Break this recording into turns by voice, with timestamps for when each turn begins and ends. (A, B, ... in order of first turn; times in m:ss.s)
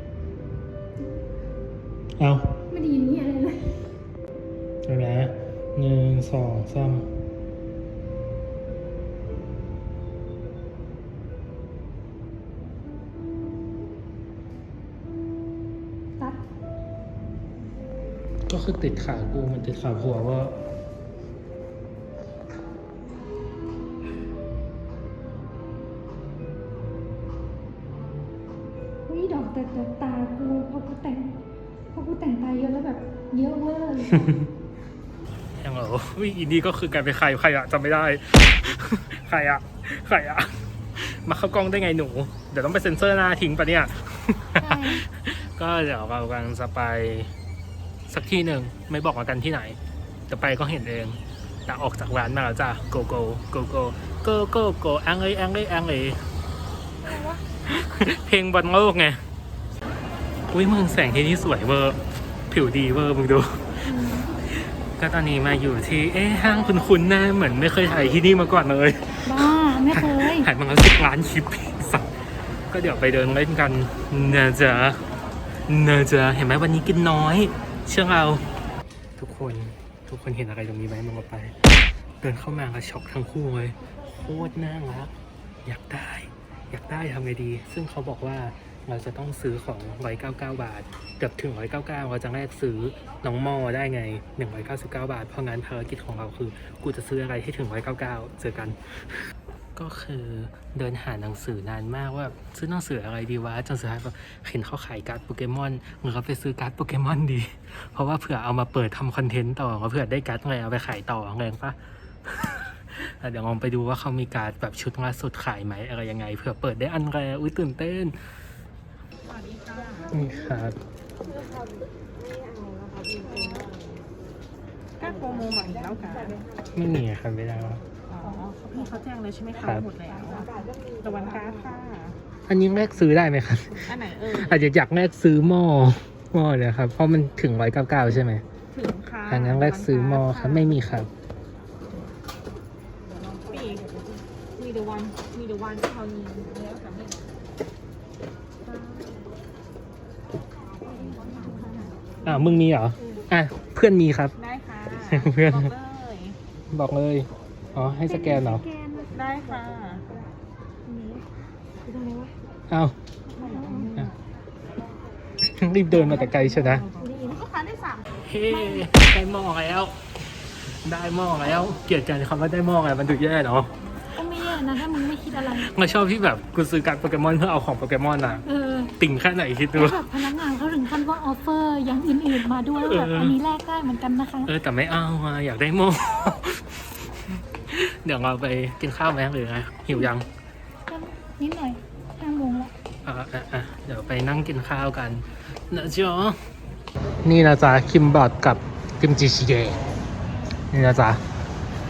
0:02.2-0:02.6 A
0:02.7-0:03.9 B
0:04.8-0:07.1 A
0:18.5-0:20.6 A
0:29.1-0:31.4 B
0:31.9-0:34.4 B
0:34.1-0:34.4 A
0:35.6-0:47.3 A
0:44.6-0:45.0 B
0:48.1-0:49.8 A
0:50.3-0:56.2 A
0:57.0-0:57.4 B
0:57.6-0:59.2 A
1:00.5-1:03.8 A
1:03.8-1:04.4 B
1:04.5-1:12.1 A
1:09.2-1:10.5 B
1:12.7-1:15.0 A
1:15.7-1:18.4 A
1:19.2-1:21.7 A
1:22.2-1:25.1 A
1:25.6-1:38.8 A
1:39.8-1:58.2 A
1:59.3-2:00.1 C
2:00.1-2:00.8 A
2:03.3-2:03.7 C
2:05.0-2:06.4 C
2:06.7-2:07.8 A
2:08.1-2:12.2 C
2:09.6-2:09.9 A
2:12.4-2:18.4 A
2:13.8-2:14.7 C
2:18.7-2:20.8 C
2:19.3-2:21.1 A
2:23.5-2:24.0 C
2:24.5-2:26.8 C
2:28.7-2:29.0 C
2:31.3-2:31.7 C
2:32.2-2:34.3 A
2:34.4-2:36.4 C
2:35.0-2:35.7 A
2:36.7-2:38.6 A
2:38.1-2:39.1 B
2:39.1-2:40.0 C
2:42.7-2:43.0 A
2:43.3-2:43.9 B
2:43.4-2:44.1 C
2:45.4-2:46.9 A
2:46.6-2:48.1 C
2:48.2-2:50.0 A
2:48.5-2:48.9 B
2:50.8-2:53.7 A
2:54.1-2:55.7 B
2:55.3-2:58.4 A
2:58.4-2:59.0 B
2:59.0-3:00.1 A
2:59.7-3:04.5 B
3:02.8-3:03.4 A
3:04.4-3:06.8 A
3:07.5-3:10.3 A
3:10.9-3:12.7 B
3:13.0-3:16.4 A
3:17.2-3:20.0 A
3:20.7-3:21.2 A